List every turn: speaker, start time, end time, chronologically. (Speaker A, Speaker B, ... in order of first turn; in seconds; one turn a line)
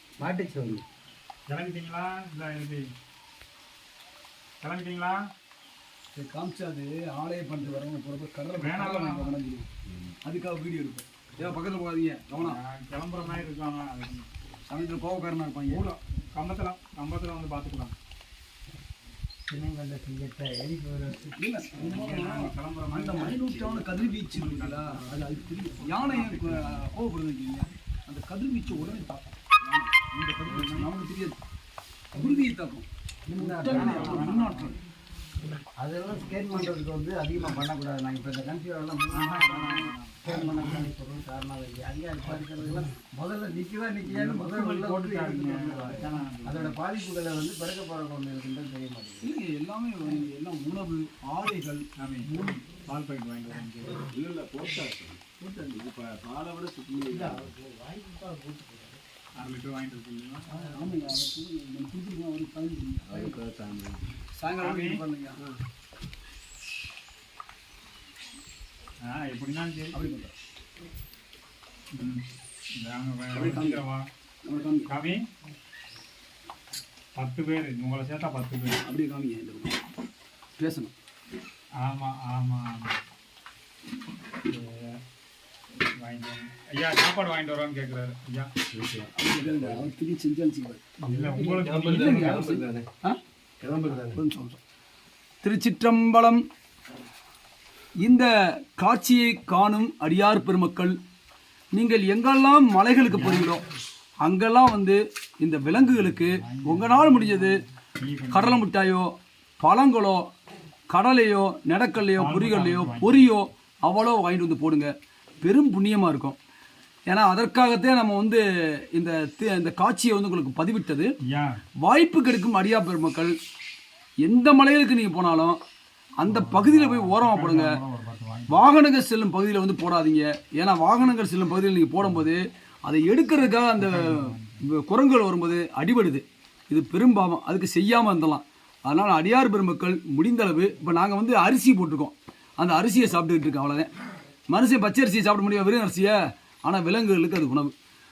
Speaker A: 0.2-0.8
Speaker B: 1.5-2.8
Speaker B: 4.6-5.2
Speaker C: 6.1-9.7
Speaker B: 8.6-9.3
Speaker C: 10.2-12.6
Speaker B: 12.4-14.3
Speaker C: 14.7-15.8
Speaker B: 15.7-17.9
Speaker A: 19.5-21.4
Speaker C: 21.4-31.4
Speaker B: 21.8-26.6
Speaker C: 32.1-34.8
Speaker A: 33.3-34.6
Speaker B: 33.7-34.7
Speaker A: 35.8-49.3
Speaker B: 39.1-40.8
Speaker B: 44.0-46.8
Speaker C: 49.2-52.6
Speaker B: 52.0-54.1
Speaker D: 54.0-57.6
Speaker C: 55.4-55.7
Speaker A: 57.1-59.0
Speaker B: 59.4-60.5
Speaker A: 60.5-60.9
Speaker C: 60.5-63.4
Speaker D: 63.1-64.1
Speaker C: 64.3-65.4
Speaker B: 64.6-65.0
Speaker B: 69.0-70.0
Speaker C: 69.9-70.3
Speaker B: 72.0-72.2
Speaker B: 72.8-74.1
Speaker C: 73.3-73.8
Speaker C: 74.4-74.9
Speaker B: 74.9-75.2
Speaker B: 77.2-78.8
Speaker C: 78.8-79.8
Speaker C: 80.6-80.9
Speaker B: 81.8-83.0
Speaker B: 84.4-85.0
Speaker B: 86.0-88.5
Speaker D: 88.7-89.8
Speaker C: 89.1-90.8
Speaker B: 91.1-92.4
Speaker D: 91.1-92.8
Speaker C: 91.8-93.2
Speaker D: 93.6-94.2
Speaker C: 93.9-94.6
Speaker C: 95.4-96.4
Speaker C: 98.0-101.0
Speaker C: 101.7-103.6
Speaker B: 103.1-103.6
Speaker C: 104.2-107.6
Speaker B: 106.0-108.7
Speaker C: 108.3-110.3
Speaker C: 110.9-116.4
Speaker B: 112.1-113.3
Speaker C: 117.1-121.1
Speaker B: 121.2-121.6
Speaker C: 121.8-123.3
Speaker C: 124.2-125.6
Speaker C: 126.2-127.7
Speaker B: 126.2-128.7
Speaker C: 128.5-143.9
Speaker B: 133.8-134.6
Speaker C: 144.5-147.7